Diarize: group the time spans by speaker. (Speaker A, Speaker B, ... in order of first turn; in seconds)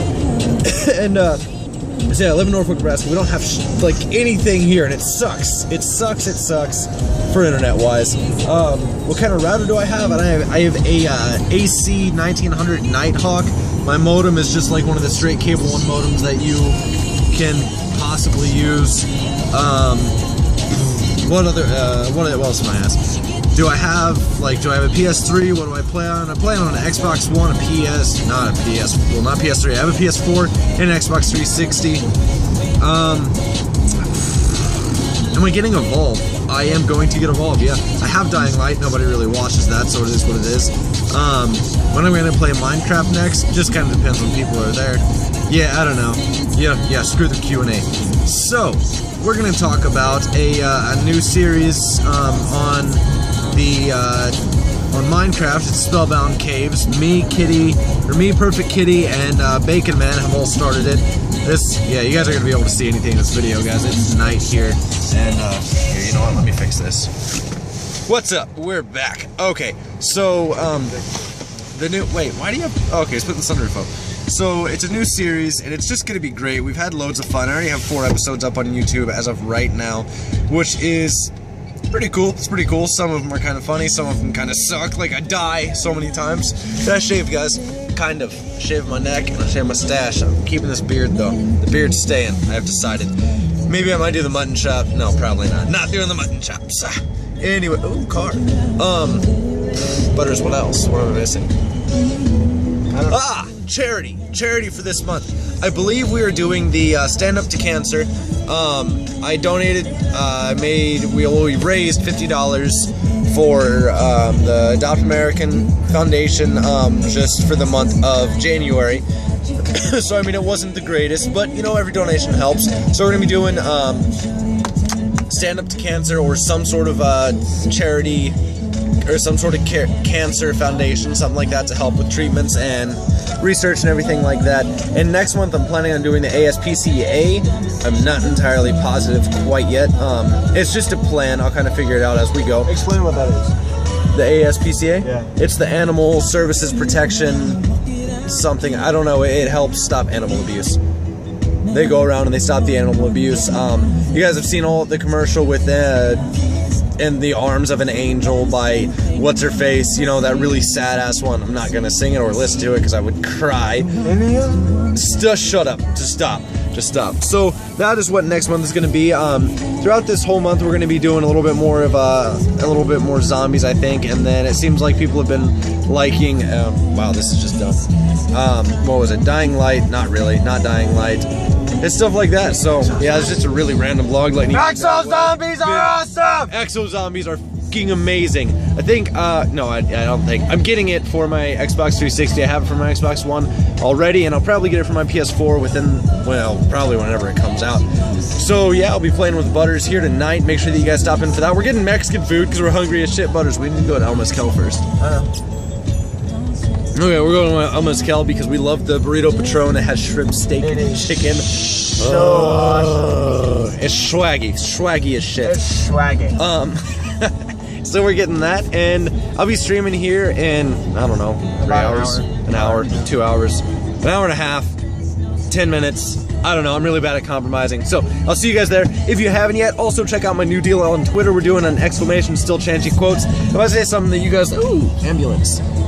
Speaker A: 0.6-1.4, 2.1-20.2, 20.7-32.1, 32.8-33.4, 34.0-54.4, 54.9-67.1, 68.0-71.0, 71.7-81.3, 81.9-99.3, 100.0-101.5, 103.0-119.0, 119.7-124.1, 125.3-128.4, 129.0-142.7, 144.1-147.6, 148.2-150.8, 151.7-156.3, 156.9-163.9, 164.9-181.3, 181.8-204.9, 206.9-215.6, 216.3-224.7, 225.5-235.6
Speaker B: 142.7-143.5, 145.0-145.3, 164.0-164.8, 184.5-186.5, 205.0-205.3, 210.6-211.0, 211.9-213.0, 215.4-216.4, 221.6-223.1